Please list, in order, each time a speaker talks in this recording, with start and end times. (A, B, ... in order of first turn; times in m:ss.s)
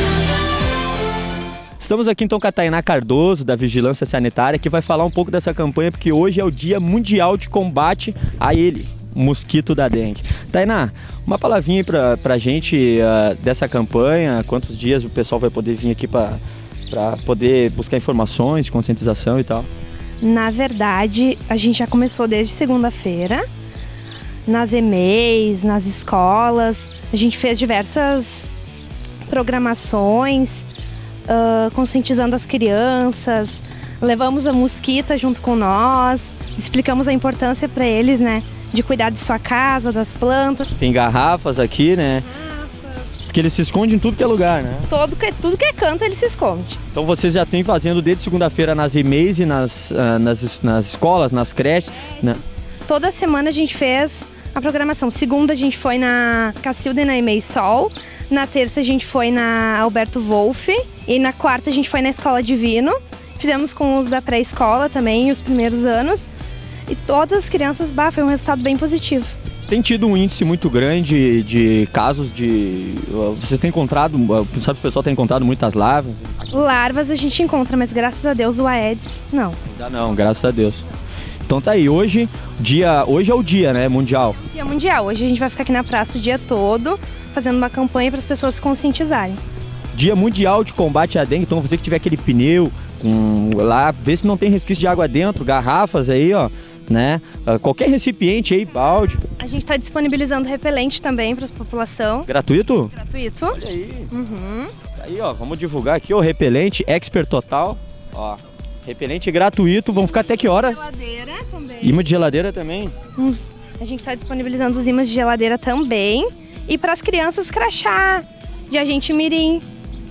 0:01.8-0:19.7 A
0:20.2-0:23.4 B
0:24.5-0:28.5 B
0:29.3-0:30.7 B
0:31.3-0:40.7 B
0:40.8-0:42.3 A
0:43.3-0:44.9 A
0:44.9-0:46.8 B
0:46.9-0:52.4 A
0:52.2-1:06.3 B
1:06.9-1:09.4 B
1:09.7-1:16.5 A
1:16.5-1:19.6 B
1:19.7-1:20.8 A
1:21.5-1:24.4 A
1:24.4-1:29.4 B
1:29.9-1:39.2 A
1:39.4-1:42.3 B
1:42.3-1:42.9 A
1:42.9-1:43.6 B
1:43.5-1:44.1 A
1:44.1-1:44.7 B
1:45.0-1:50.9 A
1:50.2-1:52.0 B
1:51.8-1:52.9 A
1:53.2-1:59.6 B